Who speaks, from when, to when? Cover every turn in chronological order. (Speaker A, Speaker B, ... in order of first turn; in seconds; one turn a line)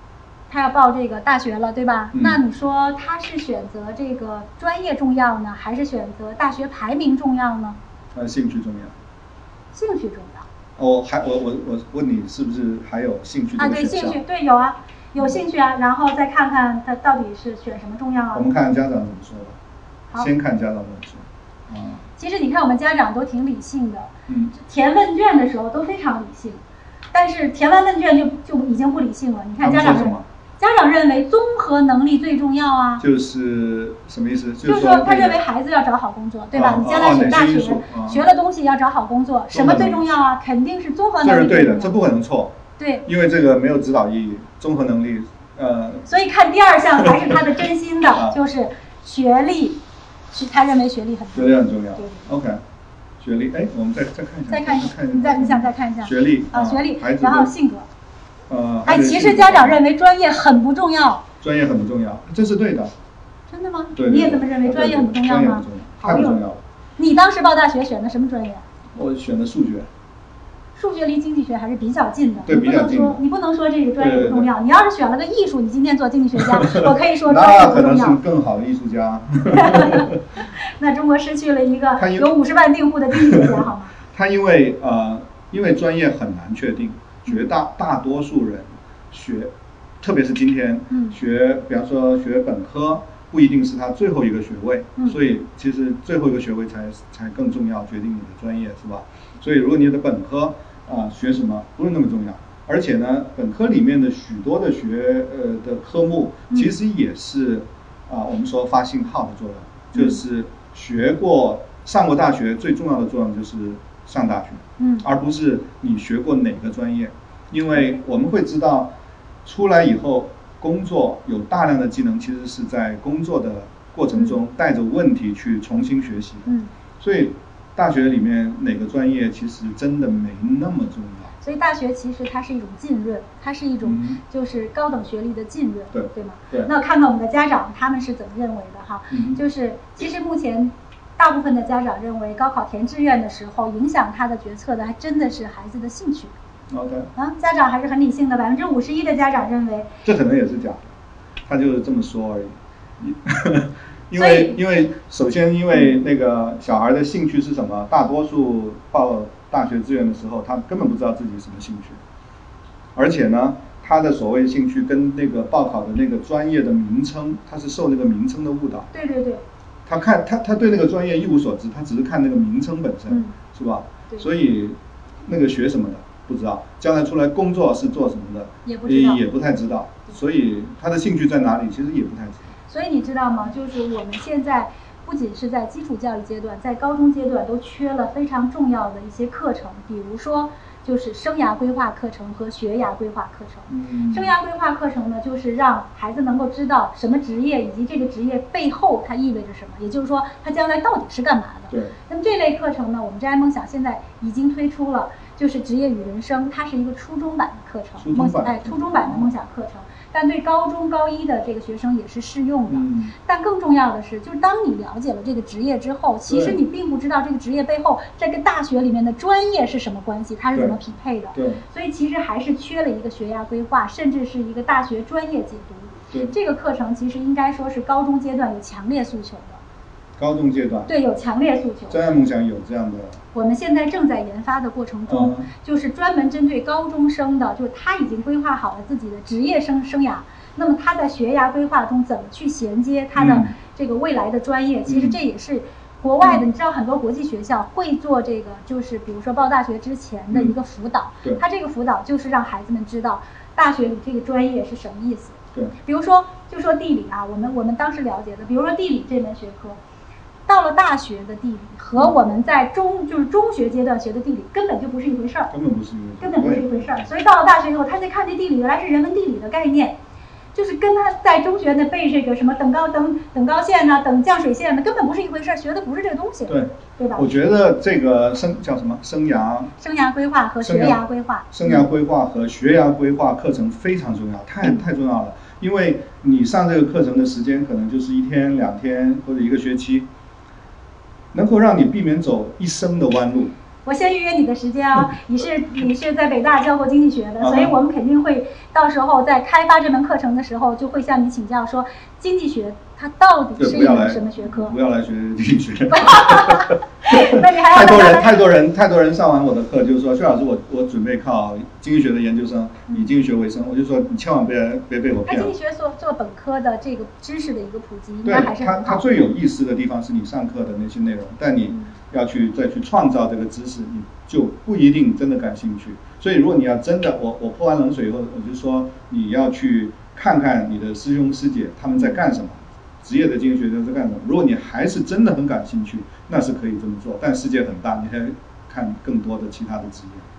Speaker A: 0.5-7.8
Speaker B: 2.1-2.4
Speaker B: 8.1-8.9
Speaker A: 9.7-10.4
Speaker B: 10.8-14.2
Speaker A: 13.6-18.4
Speaker B: 18.3-19.6
Speaker B: 20.2-22.0
Speaker A: 22.2-26.6
Speaker B: 24.3-24.5
Speaker A: 27.1-33.0
Speaker B: 29.6-30.2
Speaker B: 33.0-35.4
Speaker A: 34.6-42.0
Speaker B: 36.5-38.2
Speaker B: 39.5-40.0
Speaker B: 41.2-46.1
Speaker A: 42.8-43.0
Speaker A: 46.0-52.3
Speaker B: 47.1-47.4
Speaker B: 51.3-52.6
Speaker B: 53.2-57.5
Speaker A: 54.5-57.9
Speaker B: 58.5-59.8
Speaker A: 58.9-61.2
Speaker B: 61.4-62.9
Speaker A: 63.5-66.4
Speaker B: 64.0-66.6
Speaker A: 67.0-68.6
Speaker B: 68.9-69.9
Speaker A: 70.8-78.2
Speaker B: 72.4-73.2
Speaker B: 74.0-74.5
Speaker B: 76.4-80.1
Speaker A: 79.5-83.9
Speaker B: 82.0-82.3
Speaker B: 83.1-83.6
Speaker B: 84.1-118.9
Speaker A: 90.9-91.2
Speaker A: 109.9-110.2
Speaker A: 114.8-115.0
Speaker B: 119.4-131.3
Speaker A: 126.5-126.7
Speaker A: 131.4-146.3
Speaker B: 133.8-134.2
Speaker B: 135.9-136.7
Speaker B: 139.1-139.4
Speaker B: 146.7-147.1
Speaker A: 147.2-149.9
Speaker B: 150.0-150.9
Speaker B: 151.5-162.0
Speaker A: 154.2-154.6
Speaker B: 162.9-168.9
Speaker A: 168.9-169.4
Speaker B: 169.8-182.5
Speaker A: 173.1-173.3
Speaker A: 178.6-179.2
Speaker A: 182.7-229.6
Speaker B: 193.7-194.3
Speaker B: 208.0-209.3
Speaker B: 212.7-213.1
Speaker B: 216.3-216.6
Speaker B: 221.3-221.6
Speaker B: 230.2-230.9
Speaker A: 230.9-232.0
Speaker B: 231.9-233.2
Speaker A: 233.3-259.8
Speaker B: 235.1-235.5
Speaker B: 243.2-243.5
Speaker B: 244.9-245.2
Speaker A: 260.5-265.5
Speaker B: 262.0-262.3
Speaker B: 265.5-267.1
Speaker A: 266.2-270.0
Speaker A: 270.5-277.3
Speaker B: 276.5-279.7
Speaker A: 279.8-281.8
Speaker B: 280.6-290.1
Speaker B: 291.3-293.5
Speaker A: 293.8-304.8
Speaker B: 297.4-297.8
Speaker B: 303.6-315.5
Speaker A: 305.9-308.4
Speaker A: 315.2-319.3
Speaker B: 318.2-340.2
Speaker A: 331.9-332.2